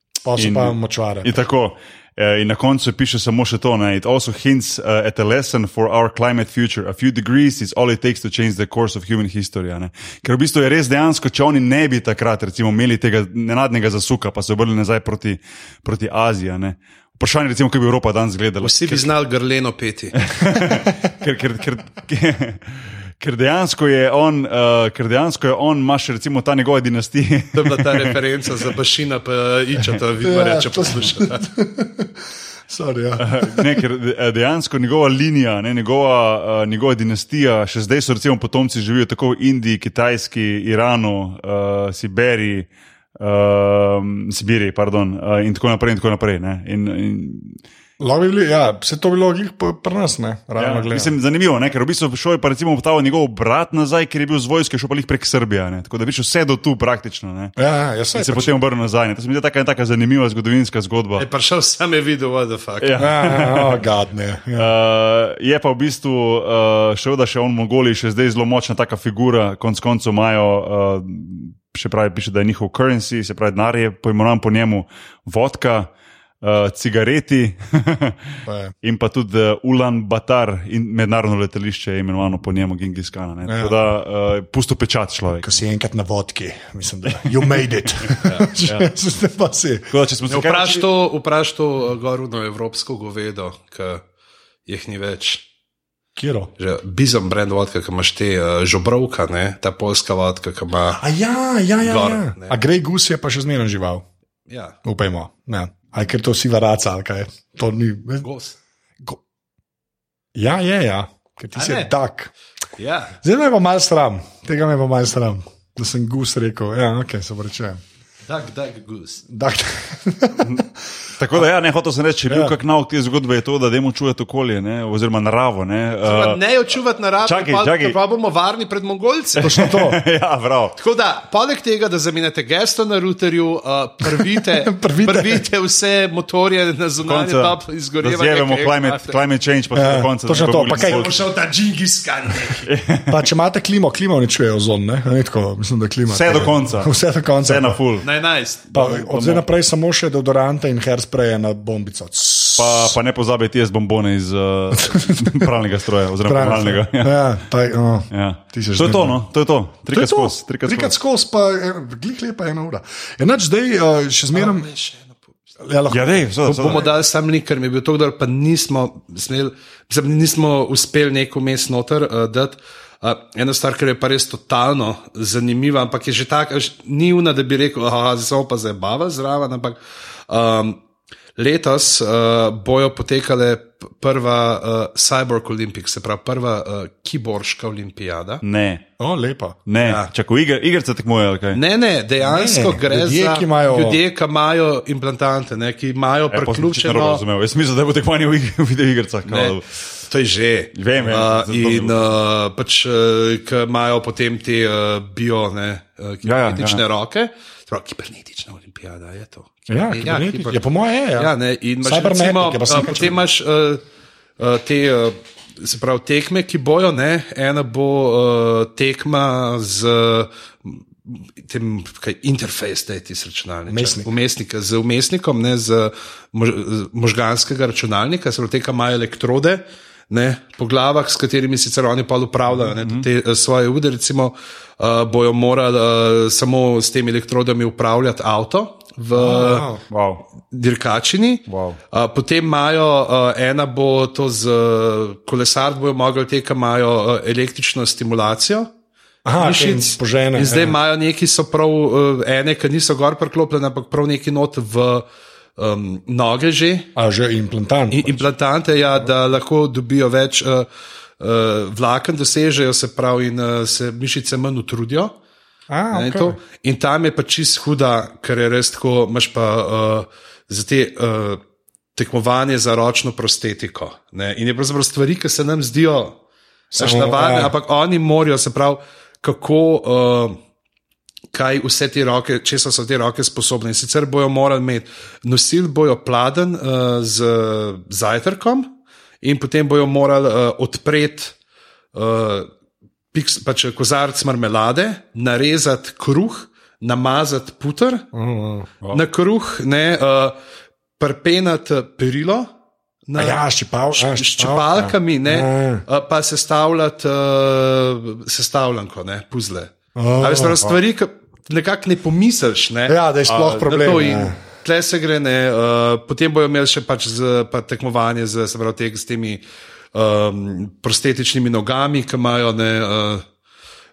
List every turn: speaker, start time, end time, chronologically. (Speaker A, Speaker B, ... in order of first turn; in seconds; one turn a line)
Speaker A: 0.2-1.3
Speaker B: 0.4-19.1
Speaker C: 18.6-20.2
Speaker B: 20.2-28.2
Speaker C: 27.5-31.4
Speaker A: 30.2-33.8
Speaker B: 33.2-47.6
Speaker A: 48.0-51.1
Speaker B: 50.6-57.5
Speaker A: 57.6-58.5
Speaker B: 58.1-61.3
Speaker C: 61.2-63.1
Speaker B: 62.8-63.8
Speaker A: 63.0-64.7
Speaker B: 64.5-75.9
Speaker B: 76.4-85.6
Speaker A: 78.5-78.7
Speaker A: 83.5-83.8
Speaker A: 85.4-89.9
Speaker B: 88.1-88.9
Speaker B: 89.9-90.9
Speaker C: 90.3-94.0
Speaker C: 94.7-95.5
Speaker A: 96.2-96.5
Speaker C: 96.6-101.0
Speaker A: 101.0-104.0
Speaker C: 101.8-102.6
Speaker C: 104.5-104.8
Speaker A: 104.8-108.3
Speaker C: 108.2-108.6
Speaker A: 110.3-112.3
Speaker C: 111.5-111.9
Speaker C: 112.8-113.2
Speaker A: 113.2-117.8
Speaker C: 118.3-119.2
Speaker A: 119.3-120.7
Speaker B: 121.2-126.4
Speaker A: 122.3-122.5
Speaker C: 126.0-129.7
Speaker B: 127.2-128.0
Speaker A: 129.4-130.0
Speaker B: 129.4-130.8
Speaker C: 130.8-139.2
Speaker A: 134.4-135.5
Speaker B: 137.0-141.2
Speaker A: 139.7-141.2
Speaker C: 140.7-142.7
Speaker B: 142.6-143.3
Speaker A: 143.1-147.8
Speaker B: 146.1-146.9
Speaker B: 147.4-148.1
Speaker C: 148.0-149.1
Speaker A: 148.7-153.0
Speaker B: 149.1-149.4
Speaker B: 152.6-157.2
Speaker A: 154.7-155.5
Speaker A: 156.2-159.2
Speaker B: 158.1-160.9
Speaker A: 159.9-164.7
Speaker C: 164.3-165.3
Speaker A: 165.6-166.9
Speaker B: 165.9-166.9
Speaker C: 166.4-179.8
Speaker C: 180.3-180.8
Speaker C: 181.4-188.4
Speaker B: 188.4-188.9
Speaker A: 189.0-189.6
Speaker B: 189.7-191.6
Speaker C: 189.8-190.1
Speaker C: 191.5-197.2
Speaker A: 192.2-194.0
Speaker B: 196.3-199.7
Speaker C: 199.3-213.8
Speaker B: 200.8-202.1
Speaker B: 206.2-206.8
Speaker A: 209.7-213.2
Speaker C: 214.4-239.7
Speaker A: 223.7-224.1
Speaker B: 232.7-233.1
Speaker A: 239.2-239.8
Speaker B: 239.9-240.2
Speaker C: 240.5-248.7
Speaker B: 241.5-241.8
Speaker A: 249.2-250.8
Speaker C: 249.4-255.1
Speaker C: 255.6-256.9
Speaker A: 256.9-258.3
Speaker C: 257.9-260.7
Speaker C: 261.2-265.1
Speaker A: 265.7-266.4
Speaker C: 265.9-271.4
Speaker C: 271.9-276.2
Speaker A: 276.7-277.5
Speaker C: 276.8-280.4
Speaker C: 281.3-291.4
Speaker C: 291.9-292.5
Speaker C: 293.1-298.1
Speaker A: 298.1-298.7
Speaker C: 298.9-300.4
Speaker C: 301.0-302.5
Speaker C: 303.1-319.4
Speaker A: 303.2-305.8
Speaker A: 309.9-310.7
Speaker A: 312.9-314.4
Speaker C: 319.9-323.2